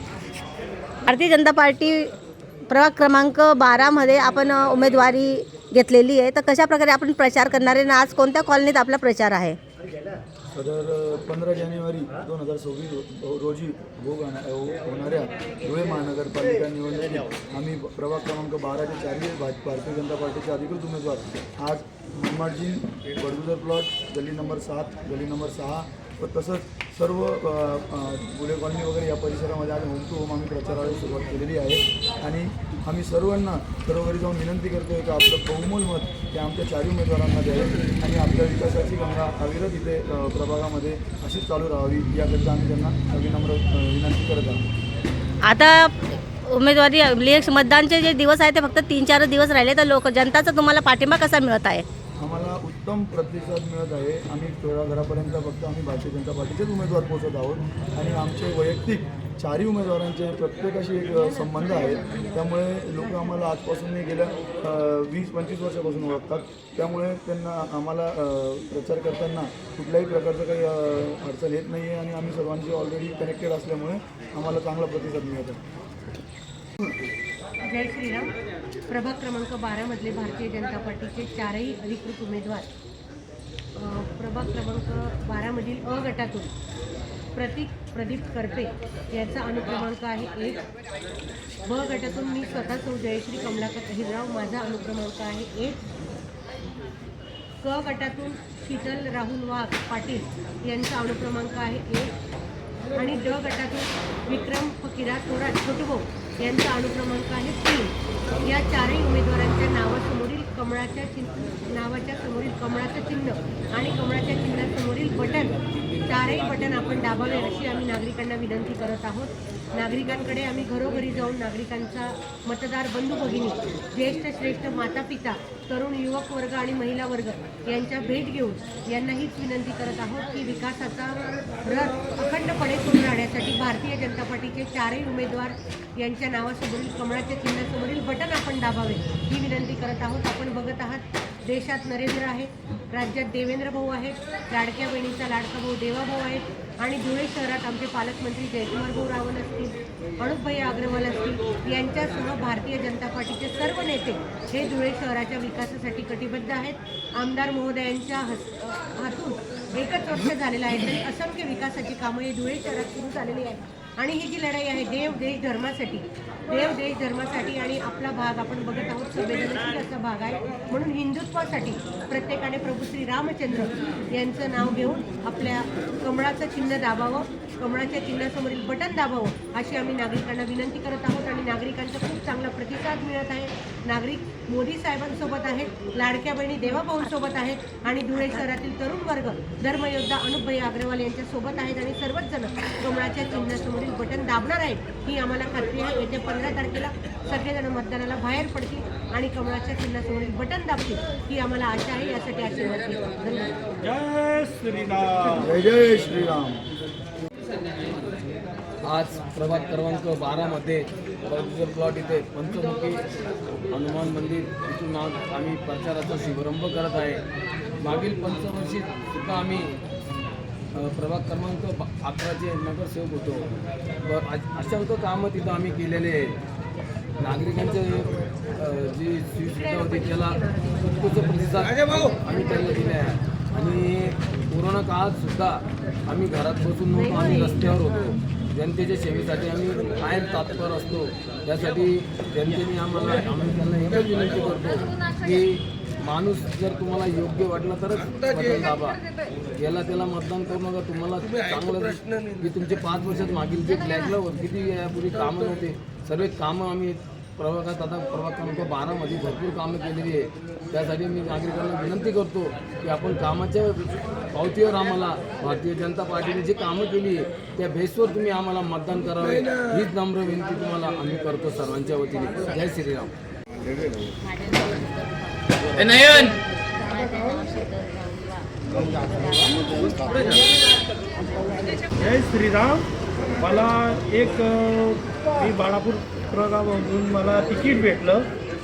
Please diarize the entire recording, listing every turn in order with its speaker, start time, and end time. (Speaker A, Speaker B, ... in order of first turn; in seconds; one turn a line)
Speaker A: 1.1-2.1
Speaker A: 2.7-9.6
Speaker B: 10.5-44.6
Speaker A: 45.5-51.8
Speaker B: 52.2-75.6
Speaker C: 77.6-78.3
Speaker C: 78.9-82.7
Speaker C: 83.7-86.5
Speaker C: 87.3-90.6
Speaker C: 91.6-95.8
Speaker C: 97.6-102.1
Speaker C: 103.0-203.6
Speaker D: 115.9-116.3
Speaker E: 203.9-205.3
Speaker B: 205.4-206.6
Speaker D: 208.8-213.0
Speaker D: 213.7-217.2
Speaker D: 217.8-219.7
Speaker D: 220.7-223.5
Speaker D: 224.0-226.3
Speaker D: 227.2-249.0
Speaker C: 229.8-230.8
Speaker C: 236.9-237.6
Speaker D: 249.6-273.1
Speaker E: 282.0-282.9
Speaker E: 283.4-288.3